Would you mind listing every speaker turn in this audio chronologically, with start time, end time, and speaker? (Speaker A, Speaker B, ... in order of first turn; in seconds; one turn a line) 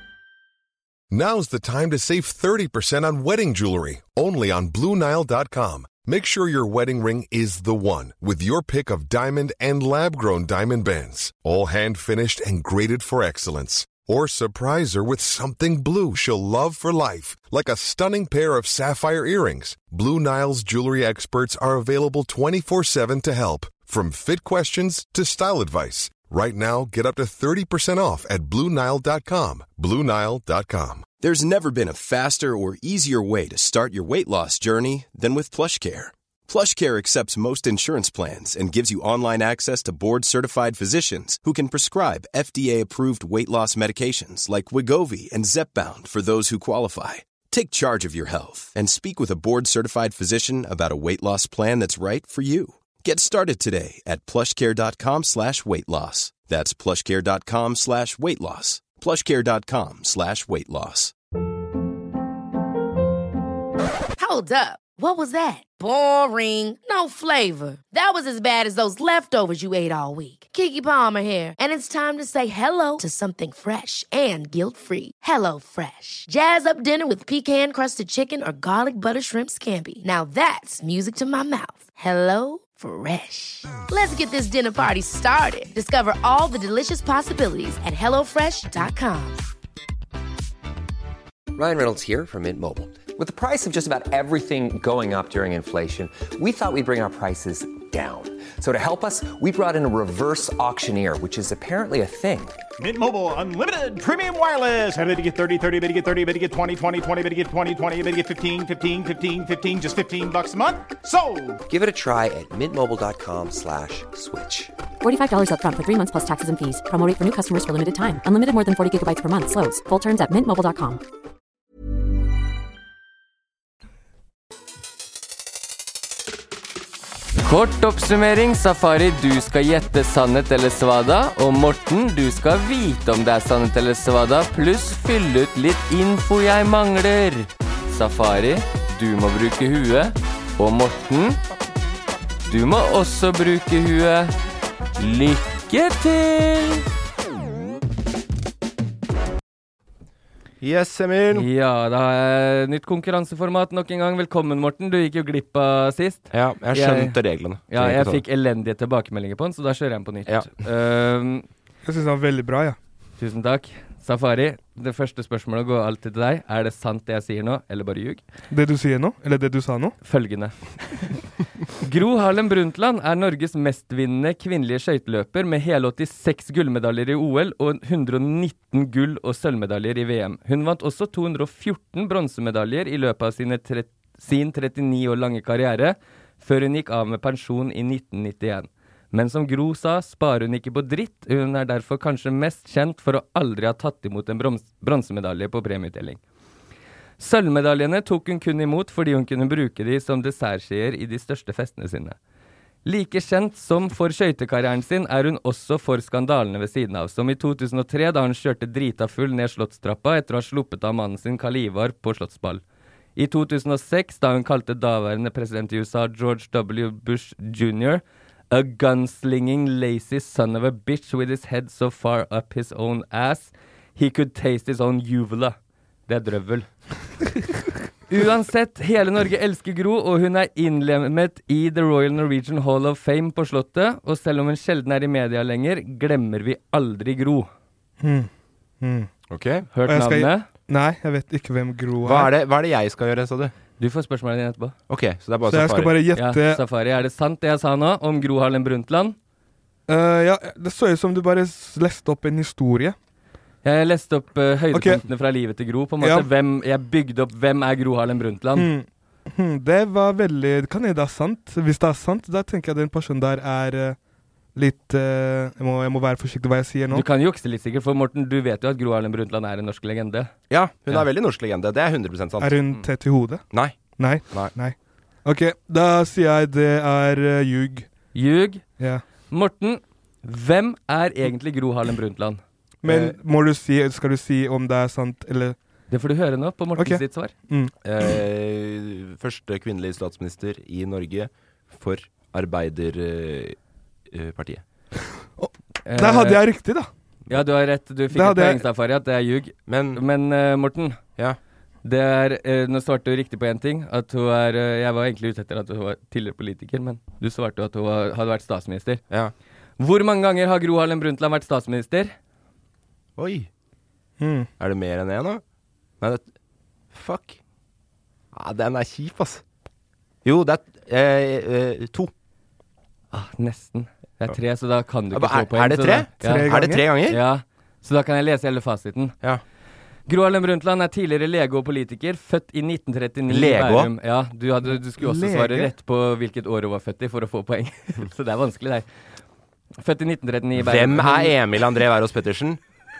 Speaker A: 1.1-31.1
Speaker B: 31.2-61.1
Speaker C: 64.2-89.4
Speaker D: 91.5-102.6
Speaker E: 102.8-111.6
Speaker D: 111.7-114.7
Speaker F: 115.0-121.0
Speaker G: 127.4-141.4
Speaker G: 142.5-144.3
Speaker G: 145.0-146.8
Speaker H: 150.6-151.5
Speaker G: 151.3-161.5
Speaker H: 156.3-158.2
Speaker I: 161.8-162.8
Speaker G: 163.2-168.2
Speaker I: 168.5-170.0
Speaker G: 170.0-171.2
Speaker G: 171.8-196.2
Speaker G: 197.2-202.2
Speaker G: 202.8-212.6
Speaker G: 213.2-225.6
Speaker G: 226.1-226.7
Speaker G: 228.1-237.5
Speaker I: 238.0-238.3
Speaker I: 238.8-239.1
Speaker H: 239.3-239.7
Speaker G: 239.7-240.5
Speaker I: 239.9-242.3
Speaker H: 242.0-243.5
Speaker G: 243.8-244.8
Speaker H: 244.9-246.0
Speaker I: 245.5-246.6
Speaker G: 246.2-249.2
Speaker I: 249.9-253.0
Speaker G: 253.6-258.7
Speaker I: 254.7-255.0
Speaker I: 256.0-256.3
Speaker I: 258.6-264.0
Speaker I: 264.6-267.1
Speaker G: 266.9-270.3
Speaker H: 270.5-272.6
Speaker I: 272.4-273.4
Speaker I: 274.0-277.9
Speaker G: 278.1-278.6
Speaker G: 279.3-282.4
Speaker I: 282.8-285.6
Speaker H: 282.9-283.1
Speaker G: 285.9-287.3
Speaker I: 286.8-287.7
Speaker H: 287.8-293.6
Speaker H: 294.1-294.6
Speaker I: 295.4-296.9
Speaker G: 295.9-296.4
Speaker G: 297.3-301.0
Speaker I: 298.1-298.6
Speaker H: 299.7-300.0
Speaker G: 301.8-309.0
Speaker G: 309.8-312.1
Speaker H: 313.2-313.5
Speaker I: 314.2-314.5
Speaker H: 314.6-315.4
Speaker H: 316.0-316.3
Speaker H: 316.9-317.4
Speaker H: 318.3-319.4
Speaker H: 320.2-322.1
Speaker G: 323.1-329.2
Speaker H: 325.1-327.2
Speaker I: 326.2-326.8
Speaker G: 330.1-338.9
Speaker H: 333.3-333.9
Speaker I: 334.7-335.7
Speaker G: 339.8-341.4
Speaker H: 340.6-342.6